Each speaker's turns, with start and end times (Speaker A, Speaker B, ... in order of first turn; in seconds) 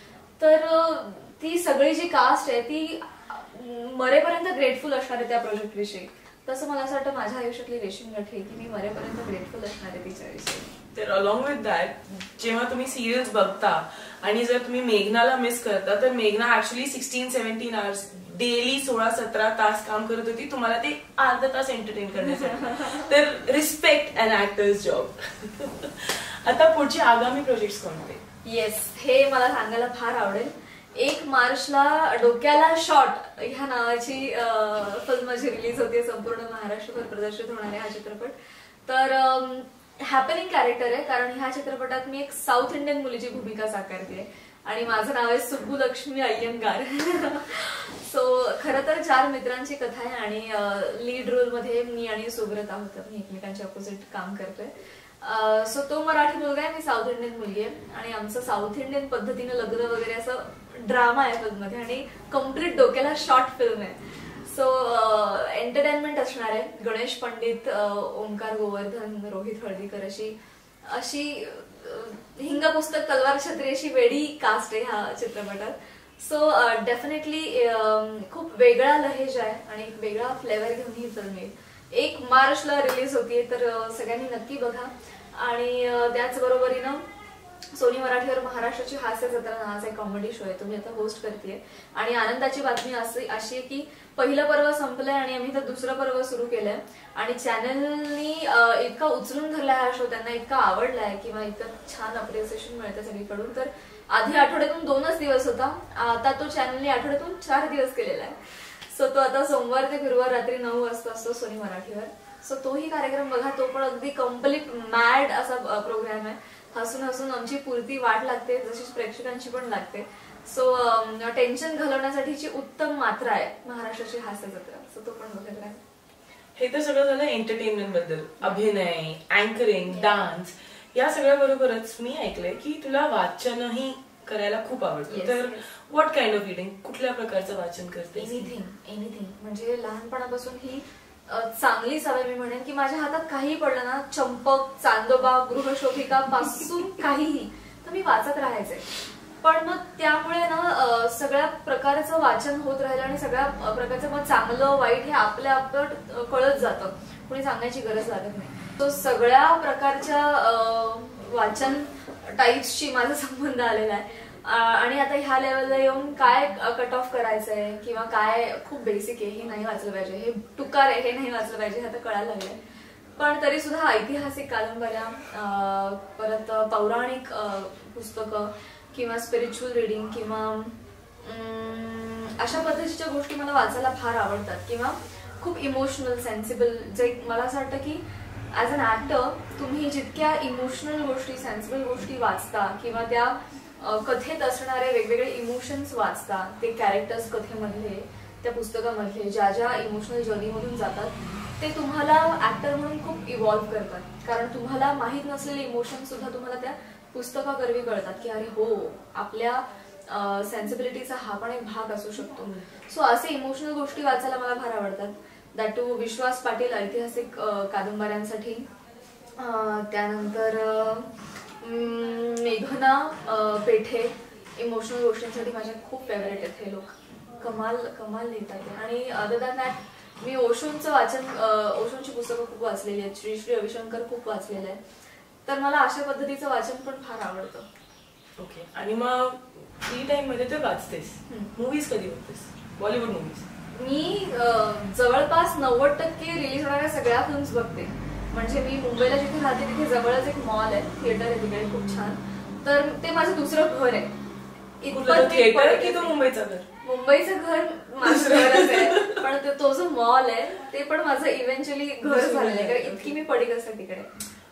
Speaker A: 0.4-10.7, 22.2-23.0, 28.4-38.3, 38.9-70.3, 70.8-87.0, 87.7-125.8, 129.9-130.2, 135.1-135.7, 138.2-148.9, 149.4-172.6, 173.2-218.6, 219.4-234.8, 235.4-237.7, 243.7-254.1, 254.8-256.2, 256.8-264.1
Speaker B: 10.9-28.2, 126.5-138.5, 238.4-243.4, 254.9-256.6, 258.0-259.2, 262.0-263.2